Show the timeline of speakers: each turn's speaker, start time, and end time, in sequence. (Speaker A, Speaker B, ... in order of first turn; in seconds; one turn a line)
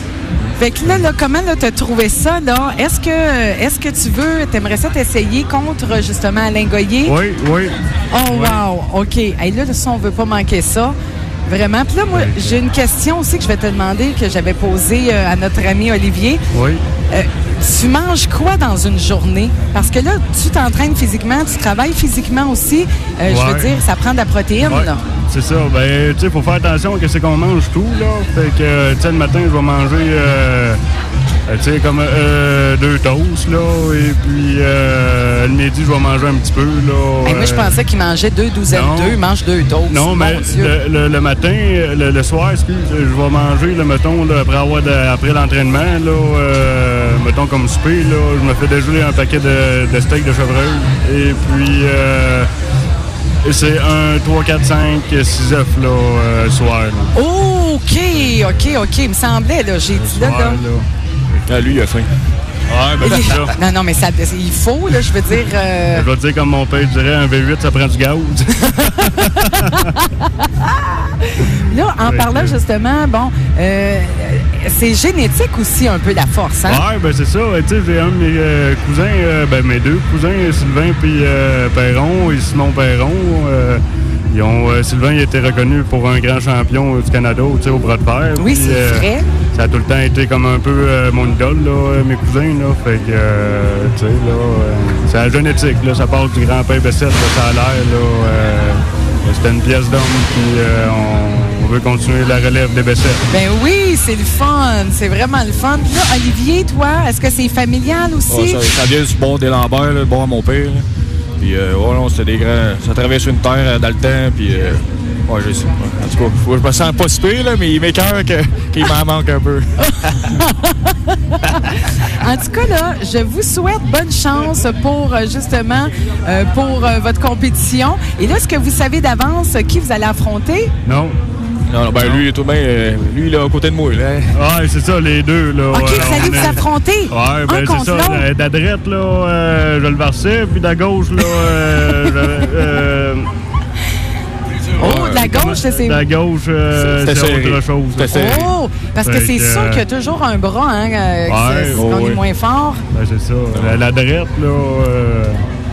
Speaker A: 0.6-7.2
Speaker B: 7.0-8.6
Speaker A: 8.1-10.9
Speaker A: 11.5-16.4
Speaker B: 12.1-12.6
Speaker B: 16.5-16.8
Speaker A: 17.1-25.0
Speaker B: 23.2-23.8
Speaker B: 24.6-30.8
Speaker B: 31.5-37.8
Speaker A: 37.2-40.7
Speaker B: 38.7-39.2
Speaker B: 39.9-52.5
Speaker B: 53.4-57.1
Speaker A: 57.1-60.6
Speaker B: 58.3-58.7
Speaker B: 59.9-60.9
Speaker C: 61.5-62.1
Speaker B: 62.7-63.5
Speaker A: 63.0-66.1
Speaker B: 65.9-70.0
Speaker A: 68.8-76.8
Speaker B: 72.0-72.6
Speaker B: 76.7-103.2
Speaker A: 88.4-89.2
Speaker A: 103.3-108.6
Speaker C: 108.3-110.8
Speaker C: 111.4-120.3
Speaker A: 119.8-130.7
Speaker B: 130.8-131.2
Speaker C: 131.7-134.3
Speaker B: 134.3-143.3
Speaker A: 135.7-138.2
Speaker A: 141.7-142.1
Speaker A: 144.8-146.0
Speaker C: 144.8-145.3
Speaker B: 145.0-149.8
Speaker C: 146.7-148.5
Speaker A: 148.1-152.8
Speaker B: 151.3-151.9
Speaker C: 151.7-152.2
Speaker B: 152.9-155.4
Speaker C: 153.5-153.8